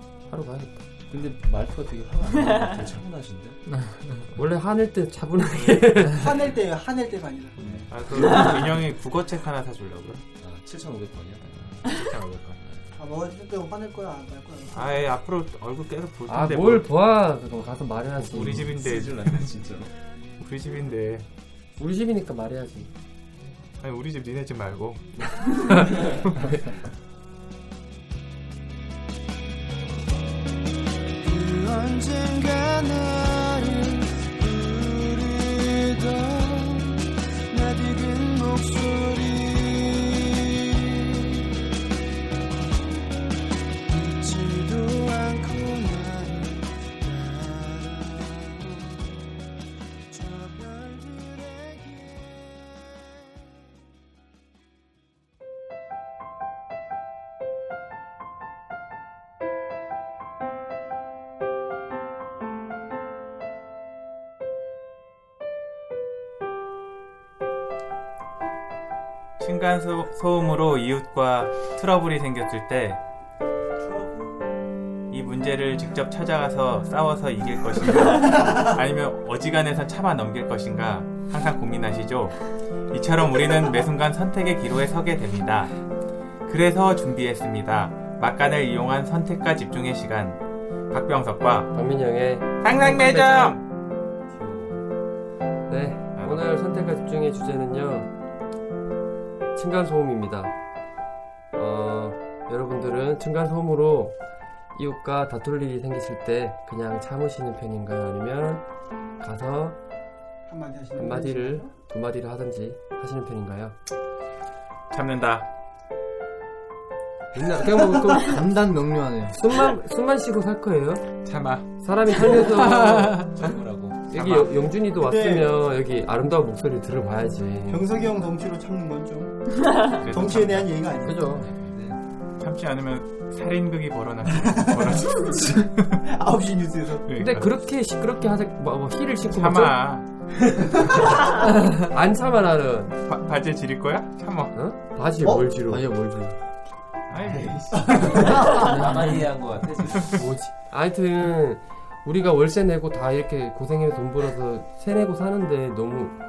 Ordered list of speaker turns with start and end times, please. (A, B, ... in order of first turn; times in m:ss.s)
0:00.3-0:00.8 A
0:01.1-0:03.6 B
0:03.8-0:04.0 C
0:04.3-0:06.3 A
0:06.1-0:07.6 D
0:07.6-0:08.4 B
0:07.9-0:10.2 E
0:10.4-0:11.8 B
0:11.8-0:12.6 E
0:12.6-0:12.9 B
0:13.0-0:15.2 D
0:14.7-0:16.9 E
0:16.3-0:18.7 A
0:18.2-0:19.5 E
0:18.4-0:19.9 B
0:20.4-0:21.2 E
0:21.8-0:22.9 A
0:23.8-0:25.0 E
0:31.2-0:41.3 F
0:43.9-0:48.9 F
0:50.1-0:52.5 F
1:09.4-1:13.0 E
1:13.8-1:14.4 D
1:15.1-1:22.4 E
1:18.2-1:18.8 D
1:22.9-1:25.7 E
1:26.4-1:31.7 E
1:31.7-1:33.6 A
1:32.6-1:33.6 E
1:34.3-1:34.8 B
1:35.7-1:38.1 A
1:36.2-1:36.4 E
1:39.5-1:40.5 A
1:41.5-1:44.2 A
1:44.7-1:48.6 A
1:49.2-1:49.8 A
1:50.5-1:51.7 D
1:51.0-1:53.8 A
1:54.9-1:55.5 E
1:57.3-1:58.4 A
1:58.2-1:59.4 C
1:59.3-2:01.1 A
2:01.2-2:03.4 E
2:01.8-2:03.3 A
2:03.4-2:04.4 B
2:04.1-2:07.8 A
2:05.0-2:05.5 D
2:07.7-2:11.4 D
2:10.0-2:10.7 E
2:11.0-2:11.5 C
2:11.4-2:12.0 B
2:12.4-2:16.0 E
2:14.4-2:17.0 D
2:17.0-2:17.5 E
2:17.2-2:19.8 A
2:19.3-2:20.1 E
2:21.1-2:23.0 A
2:23.0-2:24.5 E
2:24.5-2:26.3 A
2:25.7-2:26.2 C
2:27.1-2:28.7 E
2:27.7-2:28.1 D
2:28.1-2:30.3 B
2:28.5-2:29.2 C
2:30.1-2:36.2 A